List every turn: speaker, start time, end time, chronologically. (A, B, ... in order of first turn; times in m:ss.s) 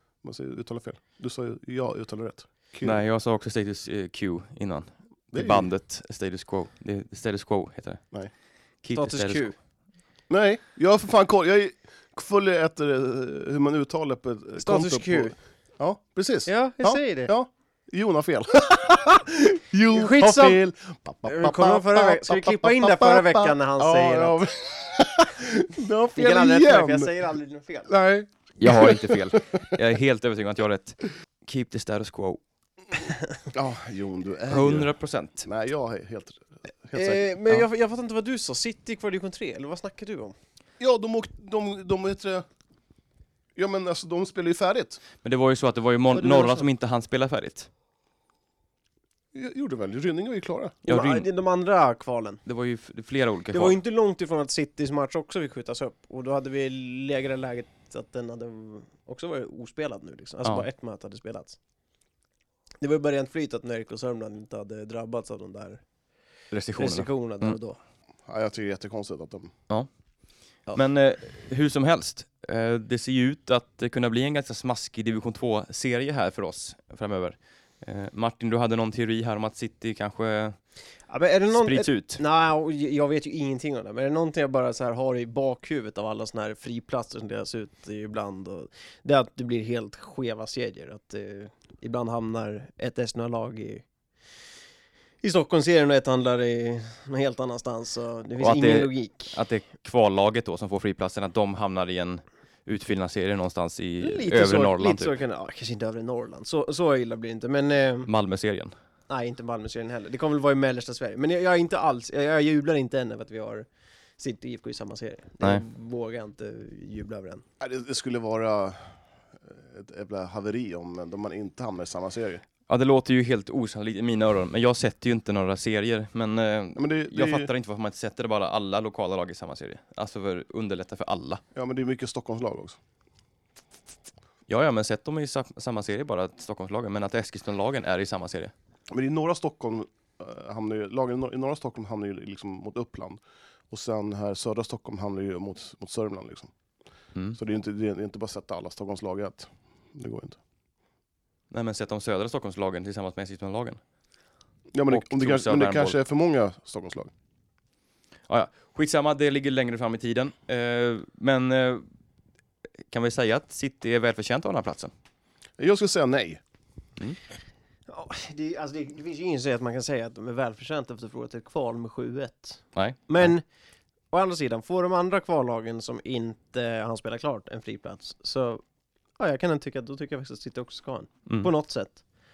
0:00.2-0:03.0 A
0:02.8-0:08.0 B
0:05.3-0:05.7 A
0:08.8-0:09.5 B
0:08.9-0:09.6 C
0:10.3-0:27.1 A
0:14.6-0:15.3 C
0:16.4-0:17.3 C
0:19.9-0:20.6 C
0:21.2-0:24.4 C
0:26.2-0:27.9 C
0:27.9-0:29.7 A
0:28.6-0:32.4 B
0:33.5-0:34.9 A
0:34.5-0:35.5 B
0:35.4-0:37.2 A
0:36.9-0:40.3 C
0:40.8-0:42.4 A
0:43.6-0:45.0 A
0:45.2-0:47.7 B
0:46.1-0:46.6 C
0:49.3-0:50.8 A
0:50.8-0:51.3 B
0:50.9-0:52.4 C
0:52.4-0:53.8 B
0:53.5-1:01.6 C
1:02.8-1:05.8 C
1:06.5-1:07.6 B
1:06.8-1:07.8 C
1:08.3-1:09.5 A
1:10.7-1:20.6 B
1:21.1-1:33.8 C
1:21.5-1:22.2 B
1:35.2-1:39.4 C
1:38.4-1:45.1 B
1:44.0-1:48.1 C
1:48.1-1:48.7 B
1:49.1-1:53.6 C
1:54.2-1:57.4 C
1:57.6-1:58.9 A
1:59.4-2:02.4 A
2:02.7-2:11.4 B
2:06.8-2:07.5 A
2:11.5-2:12.8 A
2:14.5-2:18.5 B
2:18.9-2:26.5 A
2:27.4-2:30.4 A
2:31.5-2:33.8 B
2:34.7-2:37.1 A
2:34.9-2:36.0 B
2:38.3-2:41.8 B
2:42.9-2:44.9 B
2:45.6-2:46.4 A
2:47.9-2:53.4 C
2:52.7-2:53.3 B
2:54.1-2:58.6 C
2:59.2-3:02.0 C